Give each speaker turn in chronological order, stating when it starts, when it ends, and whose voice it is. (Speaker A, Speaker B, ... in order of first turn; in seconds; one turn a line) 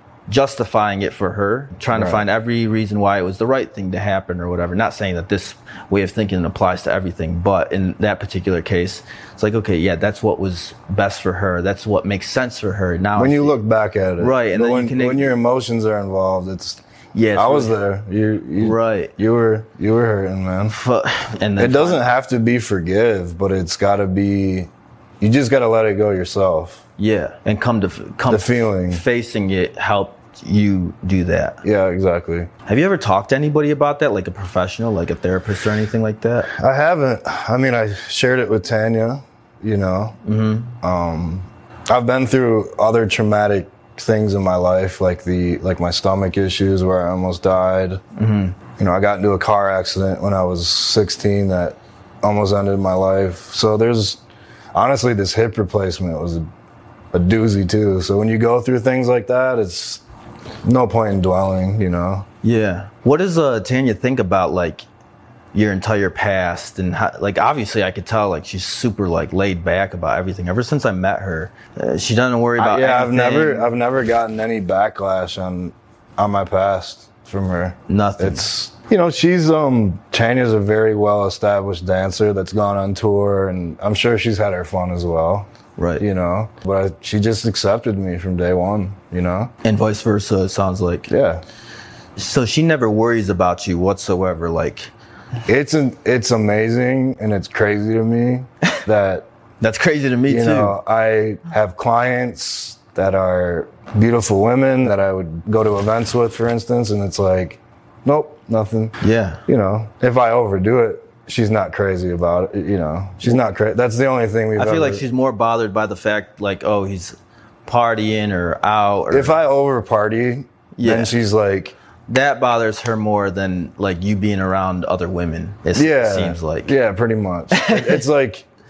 Speaker A: 0.3-13.6
Speaker B: 1.9-2.2
Speaker B: 13.2-16.8
Speaker A: 14.2-15.3
Speaker A: 17.1-17.8
Speaker B: 17.3-20.8
Speaker A: 18.6-19.1
Speaker A: 20.7-22.0
Speaker B: 21.6-26.8
Speaker A: 27.0-31.6
Speaker B: 28.3-29.0
Speaker B: 31.6-32.5
Speaker A: 32.6-36.5
Speaker B: 36.5-40.2
Speaker A: 40.2-40.7
Speaker B: 40.8-48.0
Speaker A: 48.1-48.5
Speaker B: 48.8-54.2
Speaker B: 54.7-56.4
Speaker B: 57.1-60.0
Speaker B: 60.6-62.3
Speaker A: 62.4-64.8
Speaker A: 65.5-73.7
Speaker B: 72.6-85.5
Speaker A: 77.9-78.4
Speaker A: 85.8-86.0
Speaker B: 86.0-89.5
Speaker A: 89.6-91.1
Speaker B: 91.1-91.4
Speaker A: 92.2-94.9
Speaker B: 95.5-99.3
Speaker A: 99.6-100.7
Speaker B: 100.3-115.0
Speaker A: 109.0-109.4
Speaker A: 114.5-119.3
Speaker B: 119.1-121.8
Speaker A: 120.8-121.1
Speaker A: 122.1-126.7
Speaker B: 125.7-128.4
Speaker A: 127.5-128.0